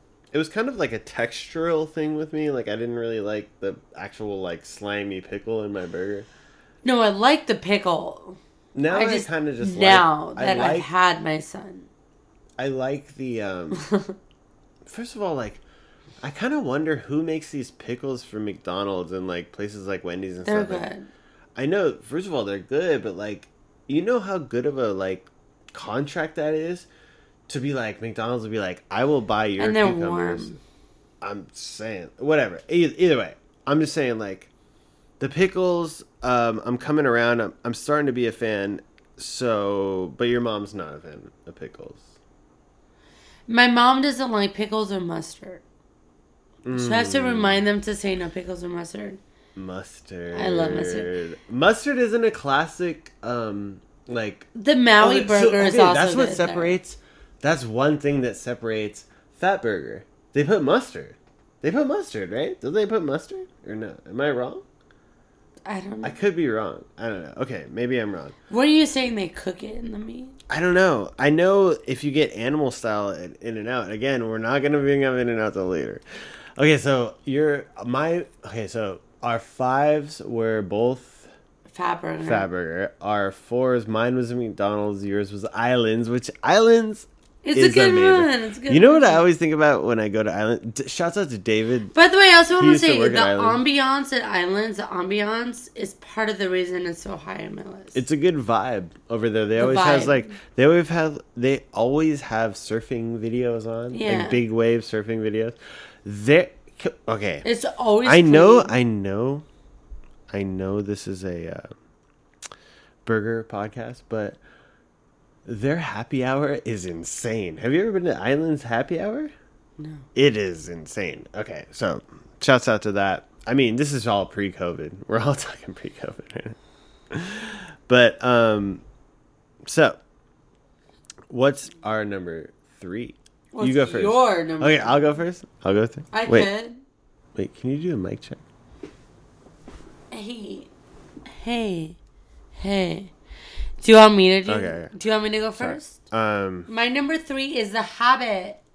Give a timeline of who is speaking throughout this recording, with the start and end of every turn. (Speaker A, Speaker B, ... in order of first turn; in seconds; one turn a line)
Speaker A: 0.3-6.3
Speaker B: 6.8-8.4
Speaker A: 8.7-10.9
Speaker B: 8.9-11.9
Speaker A: 12.6-13.8
Speaker B: 13.7-14.2
Speaker A: 14.8-15.6
Speaker A: 16.2-20.9
Speaker B: 20.4-21.1
Speaker A: 21.6-26.9
Speaker A: 27.5-30.6
Speaker B: 29.6-30.6
Speaker A: 31.2-34.5
Speaker A: 35.2-42.1
Speaker B: 43.5-45.6
Speaker A: 46.6-47.6
Speaker B: 46.7-49.2
Speaker A: 49.5-54.5
Speaker B: 50.3-51.1
Speaker B: 54.5-56.8
Speaker A: 55.0-64.6
Speaker B: 65.7-66.2
Speaker A: 66.0-68.3
Speaker B: 68.5-70.4
Speaker A: 70.5-76.0
Speaker A: 76.6-81.3
Speaker B: 81.7-82.5
Speaker A: 82.2-91.9
Speaker B: 87.4-89.2
Speaker B: 91.9-98.0
Speaker A: 92.5-93.6
Speaker A: 97.9-107.5
Speaker B: 99.6-100.3
Speaker B: 103.9-104.4
Speaker B: 107.4-108.7
Speaker A: 108.0-109.4
Speaker A: 110.3-111.7
Speaker A: 113.0-114.4
Speaker A: 115.5-119.3
Speaker B: 119.8-120.1
Speaker A: 120.1-126.6
Speaker A: 127.1-128.8
Speaker A: 129.6-130.0
Speaker A: 131.3-136.5
Speaker B: 133.5-135.1
Speaker B: 136.1-136.8
Speaker A: 137.3-138.4
Speaker B: 140.1-140.7
Speaker B: 141.3-142.0
Speaker B: 142.5-143.1
Speaker B: 143.8-146.0
Speaker A: 144.5-144.9
Speaker A: 145.6-146.7
Speaker B: 146.7-148.6